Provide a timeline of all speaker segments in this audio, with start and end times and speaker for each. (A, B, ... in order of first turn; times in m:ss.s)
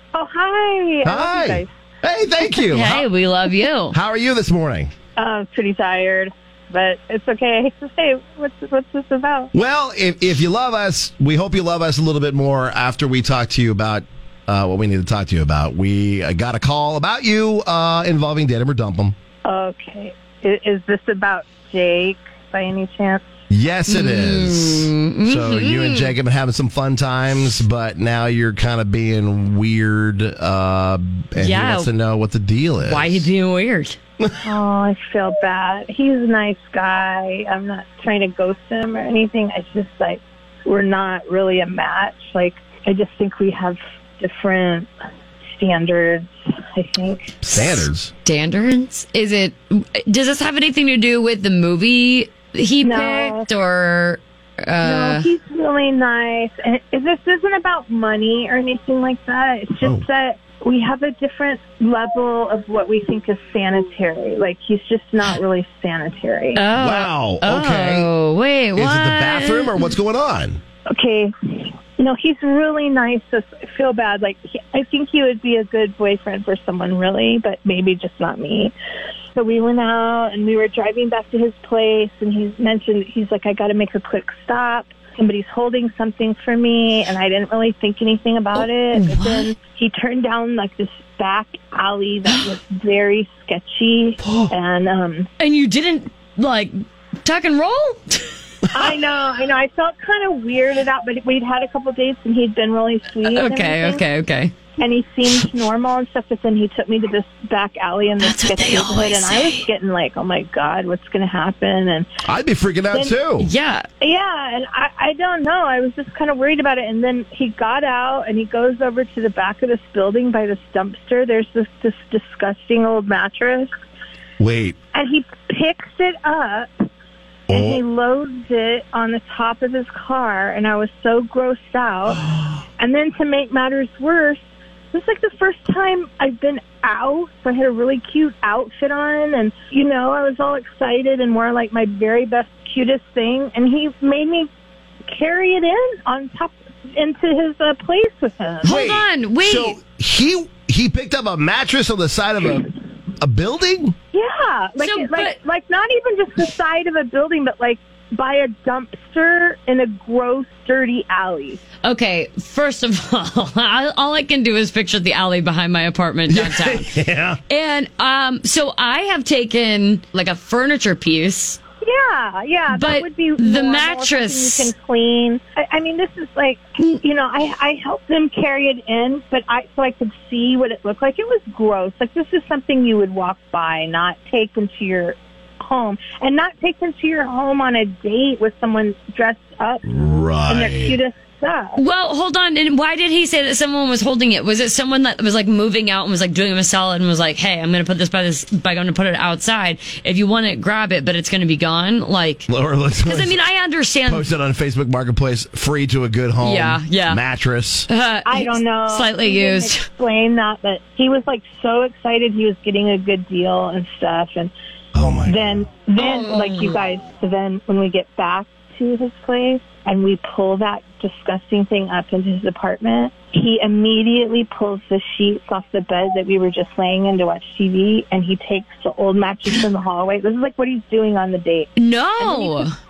0:00.1-0:01.7 A
0:01.0-0:03.1 B
0:02.7-0:04.0 C
0:03.9-0:04.9 B
0:05.2-0:09.5 A
0:09.5-0:19.1 B
0:19.4-0:23.2 A
0:23.5-0:33.3 B
0:23.9-0:26.1 C
0:31.4-0:31.9 C
0:32.8-0:34.0 C
0:34.4-0:44.9 A
0:45.6-0:47.4 A
0:47.4-0:48.1 B
0:47.6-0:55.3 C
0:52.8-0:53.5 A
0:54.8-1:06.6 A
1:06.5-1:09.9 C
1:06.8-1:08.1 B
1:08.7-1:10.6 B
1:10.9-1:18.7 A
1:19.3-1:35.3 A
1:28.5-1:29.5 C
1:35.4-1:36.7 C
1:37.2-1:38.3 C
1:38.7-1:44.0 A
1:43.2-1:44.6 C
1:44.8-1:52.1 A
1:48.2-1:49.6 C
1:52.2-1:53.5 B
1:53.4-1:53.9 C
1:54.0-2:03.7 A
2:04.4-2:04.8 B
2:04.9-2:06.7 A
2:07.5-2:07.8 B
2:07.5-2:12.2 A
2:12.8-2:14.4 A
2:14.9-2:24.5 A
2:25.1-2:28.8 A
2:28.6-2:29.8 C
2:28.6-2:33.9 B
2:34.1-2:41.6 A
2:34.8-2:35.4 C
2:41.8-2:51.6 C
2:46.3-2:47.4 B
2:51.8-3:09.8 A
2:52.7-2:54.7 C
3:09.8-3:10.9 B
3:10.5-3:11.8 A
3:11.8-3:22.5 C
3:22.5-3:23.4 B
3:23.0-3:24.3 C
3:24.0-3:27.9 B
3:26.4-3:27.2 C
3:27.9-3:29.9 C
3:28.2-3:34.5 A
3:34.9-3:35.6 B
3:35.2-3:52.6 A
3:36.0-3:36.8 C
3:51.8-3:52.7 C